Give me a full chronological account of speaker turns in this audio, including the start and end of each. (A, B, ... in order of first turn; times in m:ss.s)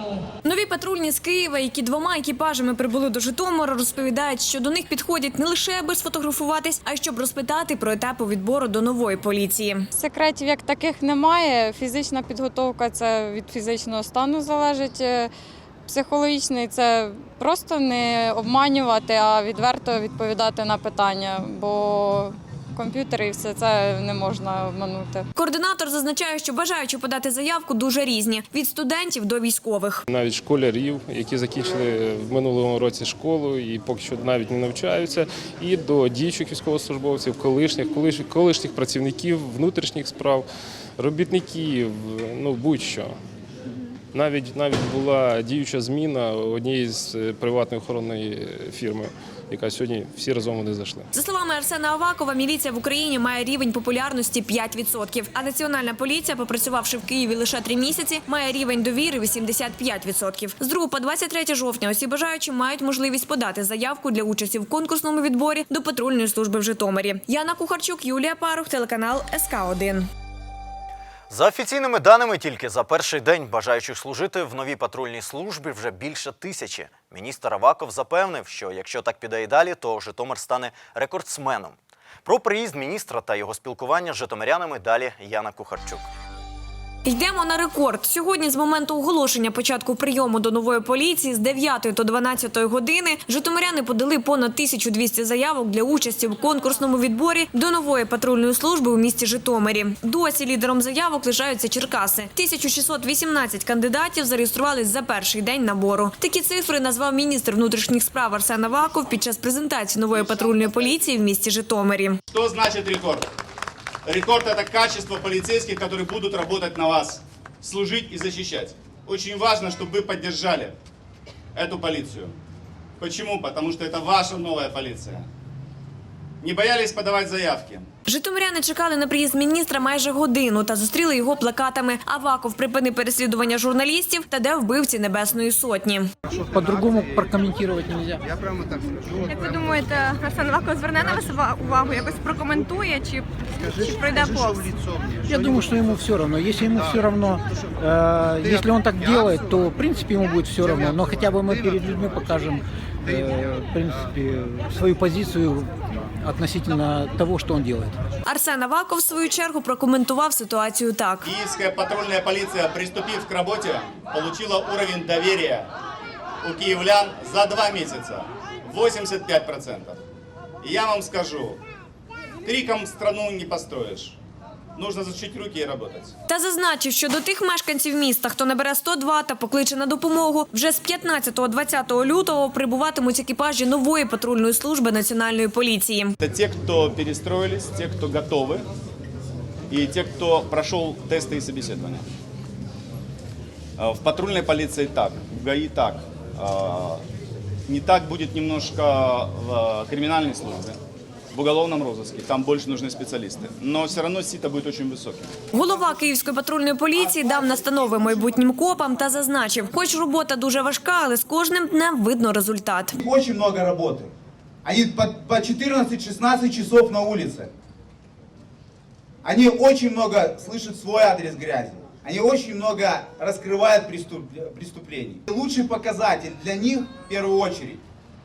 0:00.4-0:09.9 A
0:09.9-0:15.3 B
0:15.9-0:25.3 B
0:25.4-0:30.0 A
0:30.1-0:40.5 C
0:41.0-0:43.2 C
0:44.1-0:51.0 C
0:51.1-1:10.1 A
1:11.3-1:26.1 D
1:27.1-1:52.2 A
1:52.3-1:53.3 E
1:54.1-2:00.8 E
2:01.6-2:02.4 E
2:03.0-2:05.3 E
2:06.4-2:07.9 E
2:08.1-2:16.1 A
2:16.4-2:18.2 F
2:19.3-2:20.3 G
2:21.0-2:22.5 G
2:24.0-2:24.5 G
2:25.4-2:38.0 F
2:38.3-2:41.3 A
2:41.2-2:45.7 E
2:46.4-2:50.0 E
2:50.6-2:51.6 E
2:52.4-2:54.2 E
2:54.8-2:56.1 E
2:56.3-3:06.1 A
3:06.2-3:08.6 E
3:09.7-3:12.0 E
3:13.8-3:17.0 E
3:17.7-3:20.8 E
3:21.3-3:25.3 E
3:25.5-3:33.0 A
3:33.0-3:34.1 H
3:34.6-3:37.5 H
3:39.2-3:47.8 H